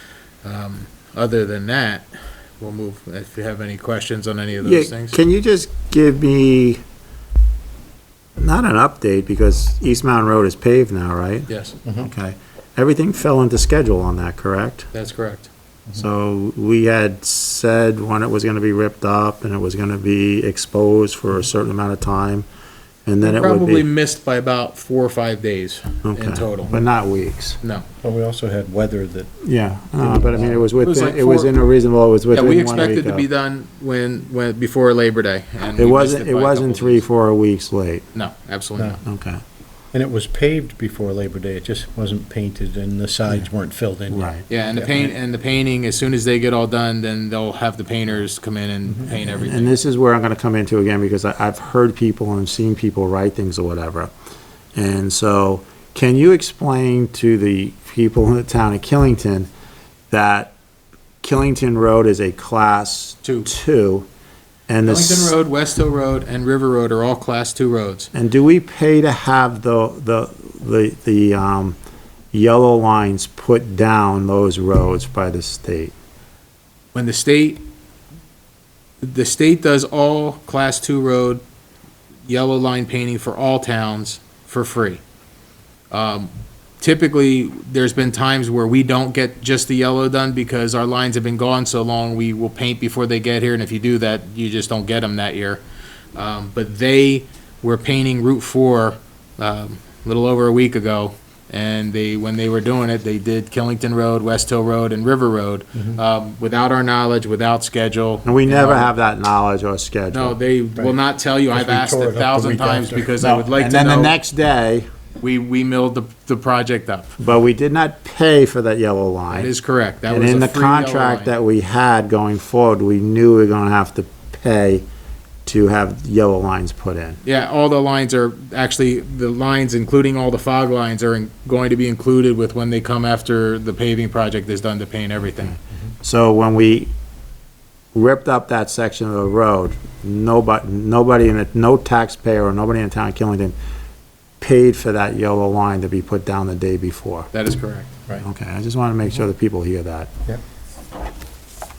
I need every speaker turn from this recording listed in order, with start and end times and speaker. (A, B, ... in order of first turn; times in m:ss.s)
0:00.4-0:05.2 A
0:04.6-0:06.8 B
0:08.4-0:11.5 B
0:11.5-0:11.8 A
0:12.0-0:14.9 B
0:14.9-0:15.5 A
0:16.0-0:22.5 B
0:23.0-0:23.8 B
0:23.2-0:26.7 A
0:26.0-0:27.6 B
0:28.0-0:29.4 C
0:29.4-0:33.2 B
0:29.9-0:30.6 C
0:30.7-0:31.5 A
0:32.3-0:37.0 A
0:35.8-0:38.0 B
0:38.1-0:39.0 A
0:39.0-0:39.4 B
0:39.9-0:45.1 C
0:44.1-0:44.4 B
0:44.5-0:49.7 A
0:49.3-0:54.1 B
0:54.7-0:59.5 B
1:00.1-1:00.5 B
1:01.2-1:04.1 B
1:03.2-1:03.5 A
1:04.7-1:05.3 B
1:04.8-1:08.1 A
1:08.1-1:11.8 B
1:12.3-1:15.9 B
1:16.9-1:17.6 A
1:19.0-1:21.4 A
1:22.2-1:25.0 A
1:25.9-1:35.6 A
1:36.1-1:48.9 A
1:48.2-1:50.4 B
1:50.1-1:54.1 A
1:51.5-1:53.1 C
1:53.2-1:54.9 B
1:55.2-1:57.1 A
1:57.2-1:59.5 B
1:59.3-2:01.3 A
2:00.1-2:04.8 B
2:05.4-2:07.2 B
2:07.2-2:15.6 A
2:16.0-2:16.9 B
2:17.9-2:23.5 B
2:24.4-2:27.3 B
2:27.3-2:27.9 A
2:28.2-2:30.1 B